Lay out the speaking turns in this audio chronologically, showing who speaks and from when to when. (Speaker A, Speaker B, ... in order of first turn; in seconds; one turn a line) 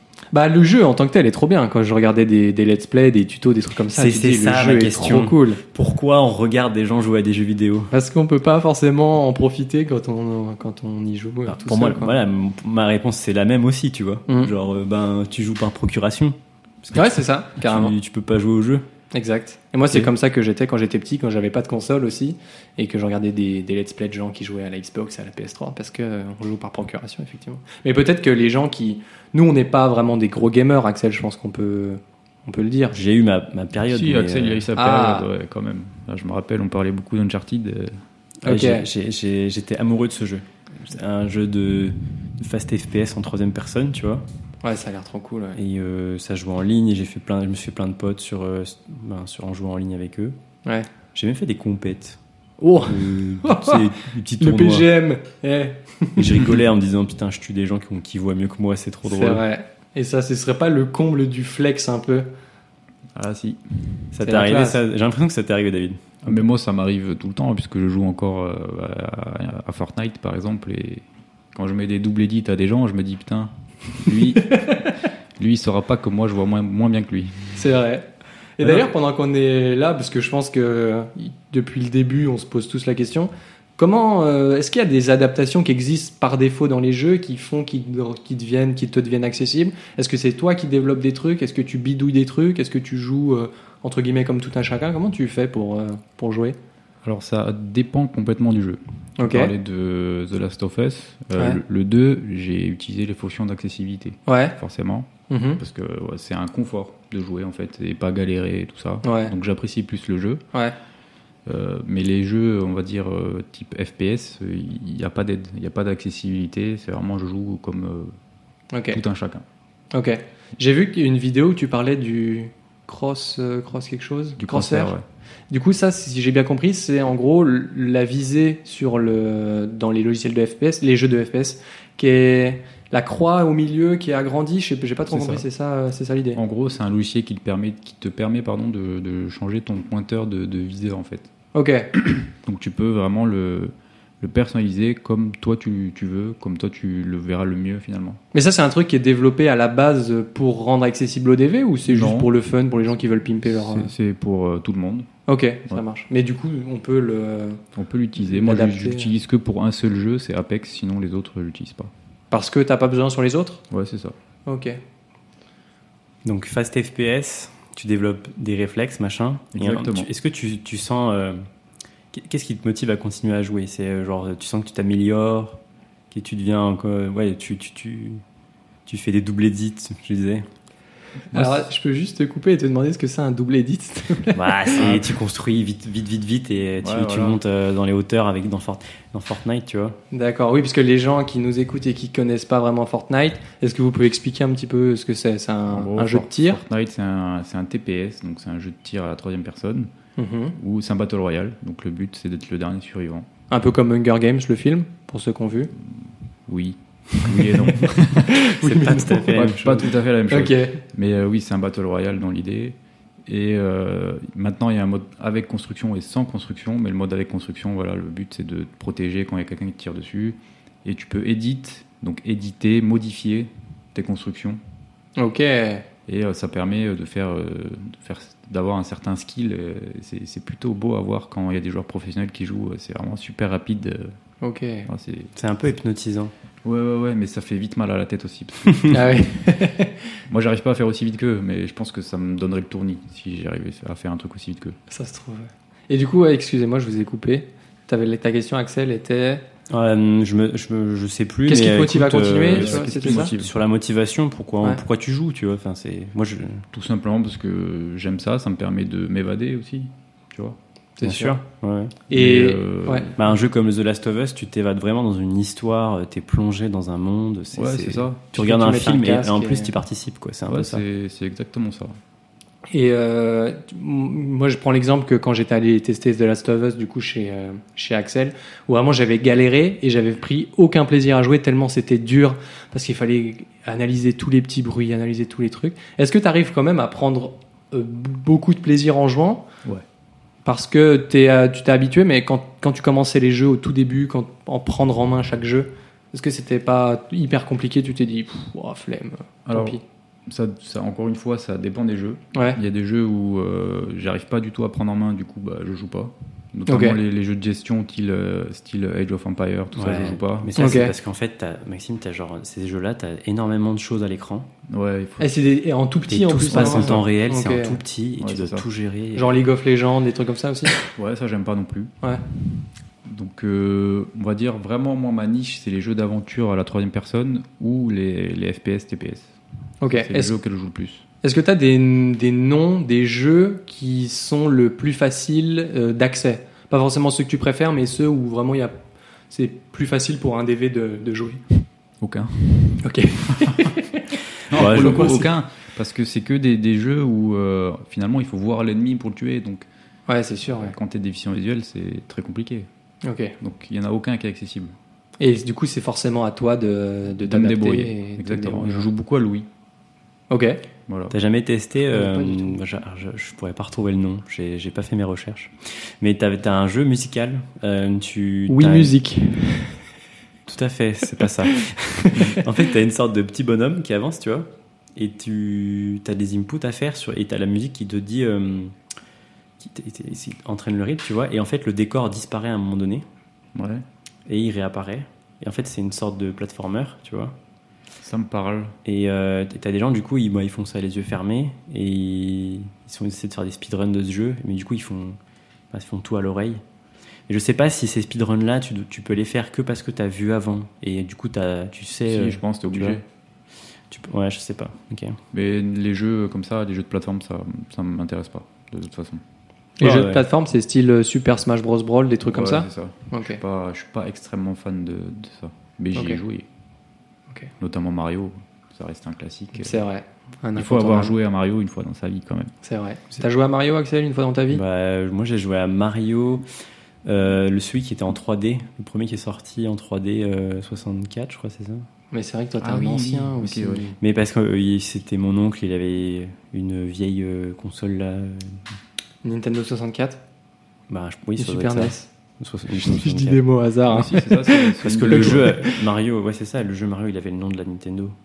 Speaker A: 0.3-5.6
Speaker B: 4.0-7.9
Speaker A: 7.9-12.1
Speaker B: 11.5-18.9
Speaker A: 14.3-14.5
Speaker A: 16.9-17.9
Speaker A: 19.1-33.0
Speaker B: 32.9-34.6
Speaker C: 33.9-38.0
Speaker A: 34.8-35.3
Speaker B: 38.4-44.2
Speaker A: 38.5-38.9
Speaker A: 44.6-45.6
Speaker B: 45.5-50.4
Speaker B: 51.1-52.2
Speaker A: 52.6-56.5
Speaker B: 52.8-54.9
Speaker B: 56.1-59.4
Speaker A: 59.0-62.3
Speaker C: 63.1-64.0
Speaker B: 64.1-66.2
Speaker A: 64.2-64.8
Speaker C: 66.2-74.7
Speaker C: 75.4-77.6
Speaker A: 77.6-78.1
Speaker A: 78.6-96.6
Speaker C: 78.6-78.9
Speaker C: 97.0-110.4
Speaker A: 99.2-99.5
Speaker A: 104.3-104.6
Speaker A: 105.3-105.6
Speaker A: 109.0-109.3
Speaker C: 111.5-118.1
Speaker A: 118.7-119.0
Speaker C: 118.9-119.4
Speaker A: 119.9-124.9
Speaker C: 124.4-125.0
Speaker A: 125.5-136.4
Speaker C: 135.1-135.4
Speaker C: 136.3-141.3
Speaker A: 141.5-141.9
Speaker C: 142.0-148.2
Speaker A: 148.3-153.9
Speaker C: 151.8-152.3
Speaker C: 153.4-155.1
Speaker A: 155.3-157.6
Speaker C: 157.8-161.9
Speaker A: 158.2-159.1
Speaker A: 162.3-163.6
Speaker C: 163.7-164.1
Speaker A: 164.5-164.8
Speaker B: 166.2-171.5
Speaker C: 169.5-170.1
Speaker B: 172.1-175.6
Speaker B: 176.1-178.2
Speaker B: 178.9-180.5
Speaker A: 181.3-184.7
Speaker B: 184.3-190.0
Speaker C: 184.8-185.1
Speaker C: 186.8-187.4
Speaker A: 190.1-196.6
Speaker C: 195.7-199.9
Speaker A: 200.2-200.6
Speaker C: 200.6-203.3
Speaker A: 203.5-205.7
Speaker C: 206.5-208.4
Speaker A: 207.4-209.5
Speaker B: 208.6-209.9
Speaker C: 209.3-224.6
Speaker A: 210.3-210.8
Speaker A: 225.2-225.9
Speaker C: 226.1-234.2
Speaker A: 234.4-234.9
Speaker C: 234.9-235.3
Speaker B: 235.4-236.3
Speaker C: 236.6-239.2
Speaker A: 238.9-240.0
Speaker C: 240.3-244.8
Speaker A: 244.9-249.4
Speaker B: 249.7-256.6
Speaker A: 251.5-253.3
Speaker C: 252.5-253.5
Speaker C: 256.7-260.6
Speaker A: 261.0-261.4
Speaker B: 261.0-262.0
Speaker A: 262.1-263.1
Speaker C: 262.1-263.1
Speaker B: 263.1-270.8
Speaker C: 267.5-268.3
Speaker A: 268.4-269.7
Speaker C: 270.5-271.9
Speaker A: 272.7-289.5
Speaker A: 290.4-299.8
Speaker C: 299.5-310.5
Speaker A: 302.3-302.6
Speaker A: 306.7-307.0
Speaker B: 309.8-314.5
Speaker A: 310.6-310.9
Speaker C: 314.7-315.3
Speaker A: 315.2-317.8
Speaker B: 316.1-319.3
Speaker C: 316.5-317.0
Speaker C: 318.2-318.6
Speaker A: 319.1-320.8
Speaker C: 320.9-321.9
Speaker C: 323.1-329.3
Speaker A: 329.8-330.3
Speaker C: 329.9-331.0
Speaker A: 331.2-338.8
Speaker A: 339.3-341.4
Speaker C: 342.0-343.7
Speaker A: 342.8-345.3
Speaker C: 344.5-349.7
Speaker B: 344.5-345.1
Speaker A: 350.1-350.8
Speaker C: 350.5-352.7
Speaker A: 353.0-353.3
Speaker C: 353.4-354.8
Speaker A: 355.2-358.9
Speaker C: 357.2-359.5
Speaker A: 360.3-360.6
Speaker C: 360.9-361.1
Speaker B: 361.1-368.9
Speaker A: 361.9-362.6
Speaker A: 368.5-369.8
Speaker B: 370.5-378.8
Speaker A: 372.1-372.4
Speaker B: 379.6-383.1
Speaker C: 383.6-383.8
Speaker B: 384.3-387.4
Speaker C: 388.0-388.8
Speaker B: 388.9-395.2
Speaker B: 395.7-396.6
Speaker B: 397.3-403.0
Speaker C: 402.1-403.0
Speaker B: 403.9-405.2
Speaker C: 405.3-409.2
Speaker A: 409.8-413.4
Speaker B: 409.8-410.2
Speaker C: 412.3-416.4
Speaker C: 417.6-419.8
Speaker A: 419.6-421.1
Speaker C: 420.6-422.5
Speaker A: 422.6-424.6
Speaker B: 424.5-426.4
Speaker B: 427.1-431.9
Speaker A: 432.1-433.9
Speaker C: 432.6-433.9
Speaker B: 434.0-438.6
Speaker A: 439.2-440.2
Speaker B: 440.9-443.4
Speaker A: 441.4-442.1
Speaker A: 442.7-445.8
Speaker C: 443.9-445.6
Speaker B: 444.8-448.1